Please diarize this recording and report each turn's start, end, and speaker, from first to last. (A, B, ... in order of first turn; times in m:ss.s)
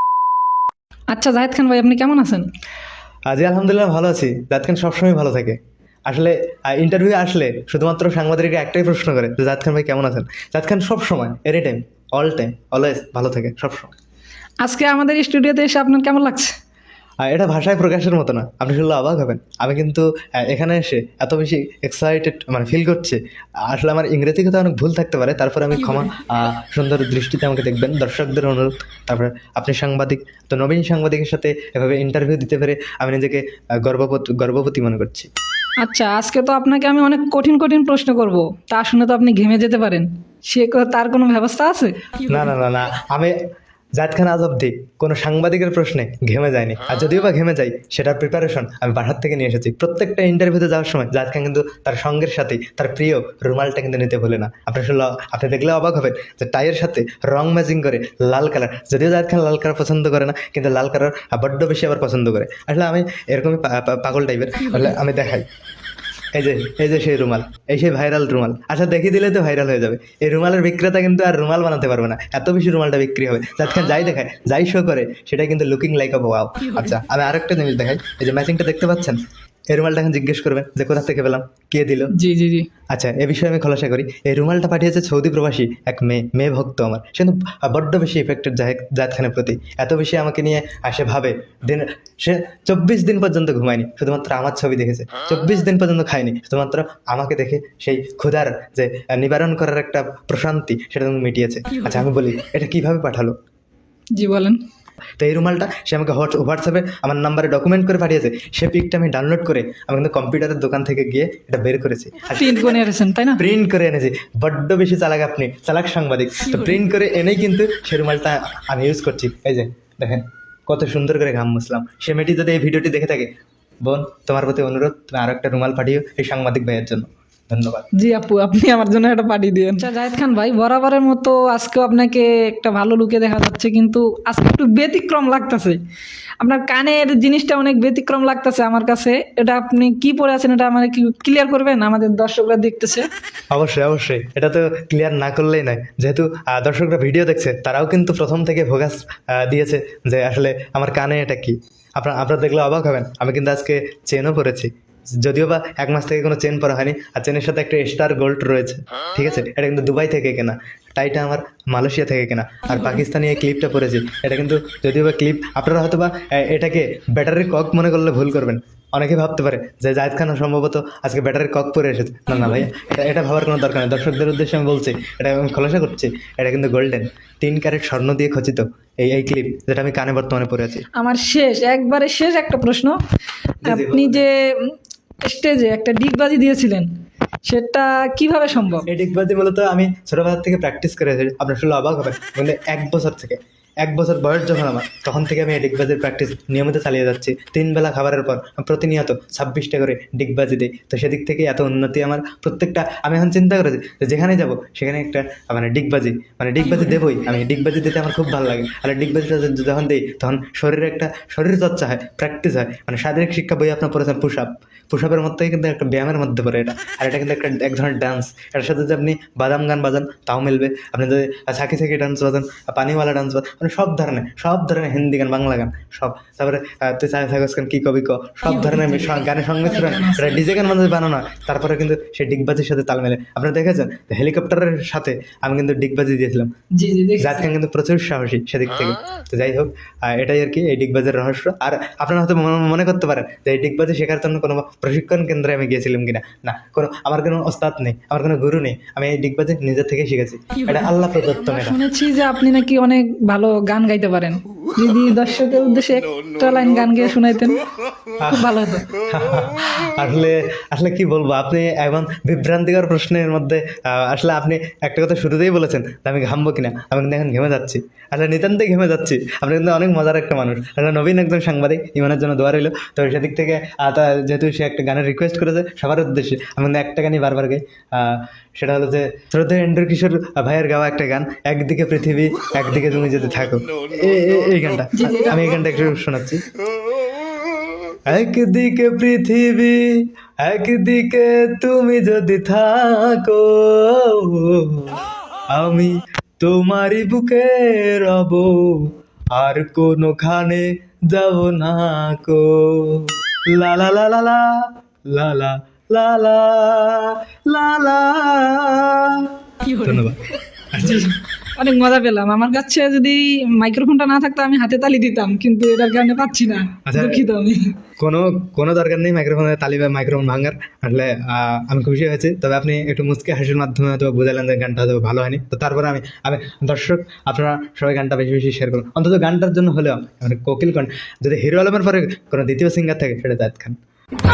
0:01.1-0:02.5 A
0:03.3-0:13.9 B
0:14.6-0:16.5 A
0:17.2-0:35.3 B
0:35.8-0:42.2 A
0:42.2-0:43.4 B
0:44.0-1:05.5 B
1:06.3-1:19.2 B
1:19.7-1:22.1 B
1:22.1-1:22.7 A
1:22.9-1:43.3 B
1:44.1-1:44.6 A
1:45.2-1:52.6 B
1:52.3-1:53.4 A
1:53.4-2:03.3 B
2:03.8-2:07.9 B
2:07.9-2:15.8 A
2:16.4-2:23.1 A
2:23.5-3:00.9 B
2:52.3-2:52.7 A
3:00.9-3:03.0 A
3:03.6-3:04.2 B
3:03.6-3:06.9 A
3:07.4-3:08.9 A
3:08.9-3:56.5 B
3:48.5-3:50.5 A
3:56.7-3:57.5 A
3:57.2-4:11.8 B
4:10.6-4:18.9 A
4:18.2-4:46.4 B
4:44.9-4:45.4 A
4:48.1-5:11.1 B
5:09.7-5:09.9 A
5:10.8-5:17.8 A
5:16.9-5:17.2 B
5:18.0-5:33.8 B